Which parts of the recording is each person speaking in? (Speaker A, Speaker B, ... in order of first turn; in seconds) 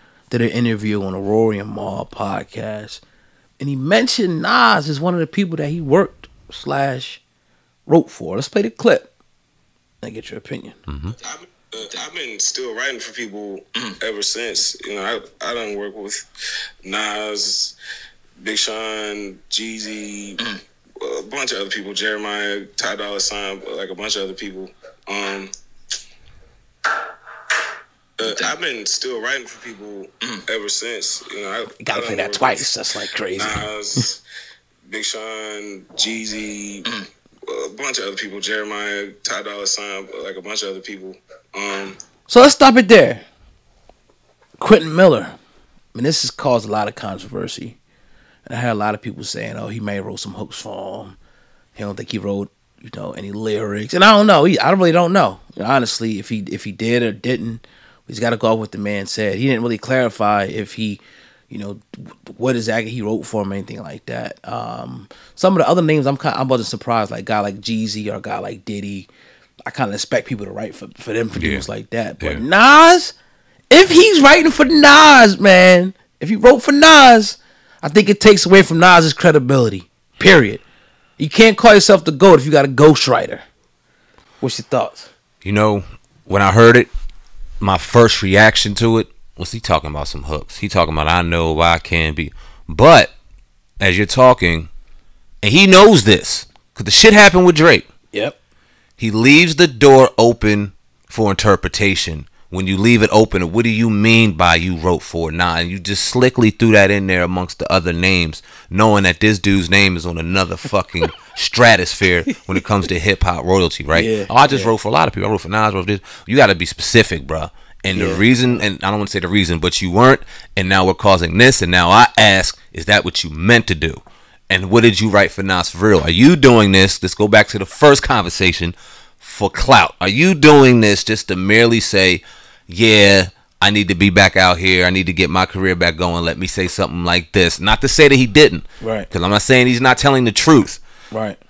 Speaker A: 0.3-3.0, 3.6-7.2, 7.9-9.1, 10.0-10.8, 31.8-34.0, 42.3-43.2, 44.6-45.3, 45.9-47.8, 48.5-51.2, 51.7-69.1, 69.7-73.1, 73.7-80.6, 81.2-83.4, 84.4-85.1, 113.9-114.7, 117.9-118.3, 138.8-139.1, 141.1-141.4
Speaker B: 10.9-11.2, 71.3-71.6, 85.4-86.9, 87.6-93.1, 93.8-94.7, 95.4-97.9, 99.0-140.8
Speaker C: 11.2-16.2, 16.8-17.7, 18.4-20.4, 21.0-25.5, 28.2-32.6, 33.4-34.2, 34.9-36.9, 37.5-42.0